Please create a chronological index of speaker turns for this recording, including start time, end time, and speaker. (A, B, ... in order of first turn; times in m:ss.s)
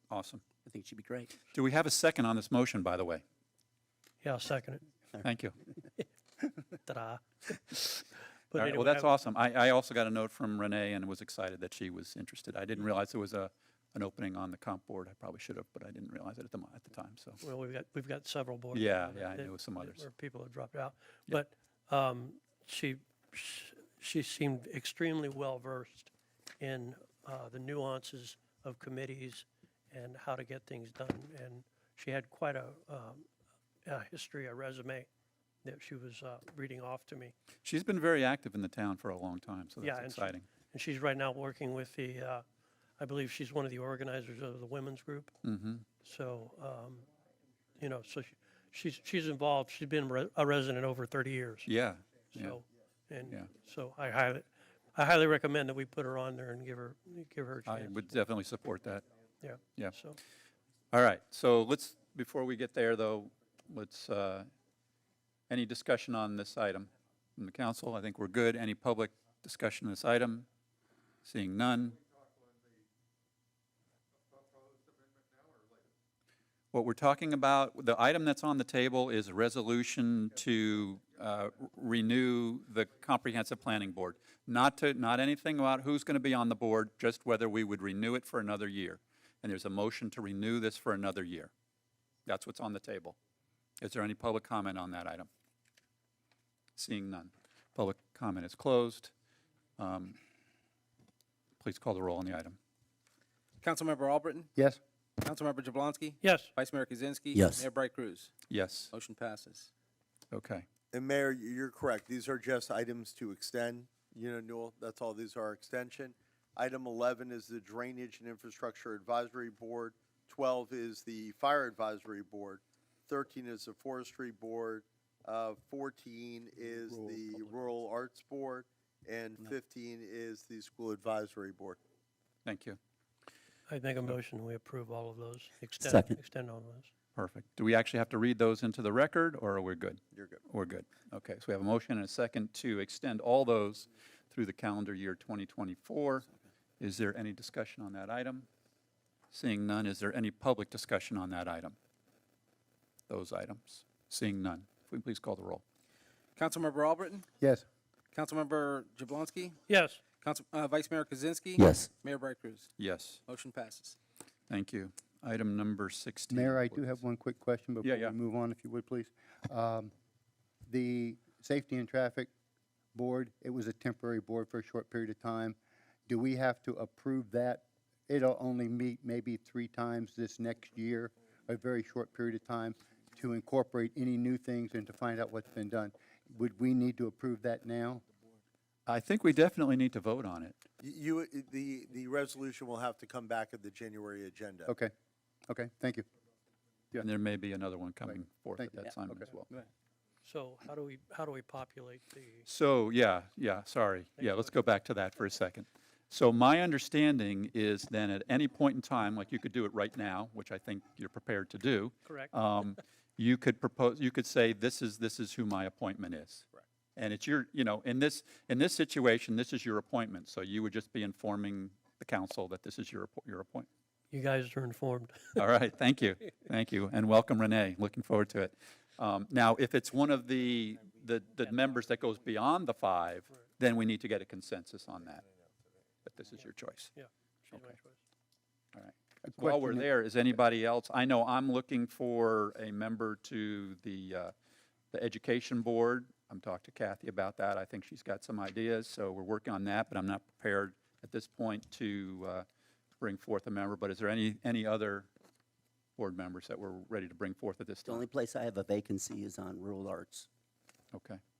0:00.1-0:00.4 A
0:00.6-0:01.3 B
0:01.5-0:03.2 A
0:04.2-0:04.8 C
0:05.2-0:05.6 A
0:06.8-0:09.1 C
0:08.5-0:17.4 A
0:17.4-0:33.2 C
0:18.7-0:20.0 A
0:33.8-0:35.1 C
0:35.6-0:37.3 C
0:37.6-0:40.5 A
0:39.8-0:42.4 C
0:43.0-0:45.4 C
0:45.4-0:45.8 A
0:46.0-0:47.0 C
0:47.8-0:51.7 C
0:51.7-0:52.6 A
0:52.3-0:58.0 C
0:57.6-0:59.0 A
0:59.4-1:00.2 C
1:00.9-1:04.5 A
1:05.5-1:10.4 A
1:11.2-1:12.0 A
1:16.7-1:31.5 A
1:32.2-1:33.2 A
1:33.8-1:35.3 A
1:36.8-1:39.1 A
1:39.8-1:40.2 A
1:41.6-1:42.6 A
1:43.6-1:44.5 D
1:45.2-1:48.3 D
1:46.2-1:46.5 C
1:47.3-1:47.6 B
1:48.5-1:48.9 A
1:48.9-1:49.7 D
1:50.3-1:50.7 A
1:50.9-2:11.8 E
2:12.4-2:12.8 A
2:13.7-2:16.9 C
2:15.8-2:16.1 B
2:17.2-2:26.3 A
2:20.1-2:20.4 E
2:26.8-2:28.5 A
2:29.3-2:31.8 A
2:33.1-2:35.6 A
2:36.4-2:37.2 D
2:38.1-2:39.6 D
2:39.7-2:40.0 C
2:40.2-2:42.7 D
2:41.6-2:41.9 B
2:42.8-2:43.2 A
2:43.3-2:44.0 D
2:44.5-2:47.0 A
2:46.3-2:49.9 F
2:47.8-2:48.1 A
2:50.6-2:52.3 F
2:52.9-2:55.6 F
2:56.1-3:08.0 F
3:08.8-3:10.6 A
3:10.8-3:14.7 E
3:14.7-3:14.9 F
3:15.5-3:16.0 F
3:17.0-3:19.5 A
3:18.1-3:18.8 F
3:20.2-3:22.5 C
3:22.5-3:43.7 A
3:24.2-3:24.5 C
3:32.0-3:32.3 C
3:44.1-3:45.4 C
3:45.4-3:55.2 A
3:56.0-3:56.9 A
3:56.9-3:58.0 C
3:58.7-4:04.3 A
3:59.2-3:59.9 F
4:04.9-4:12.4 A
4:13.0-4:15.1 A
4:16.0-4:18.0 A
4:17.8-4:20.3 B
4:20.9-4:21.2 A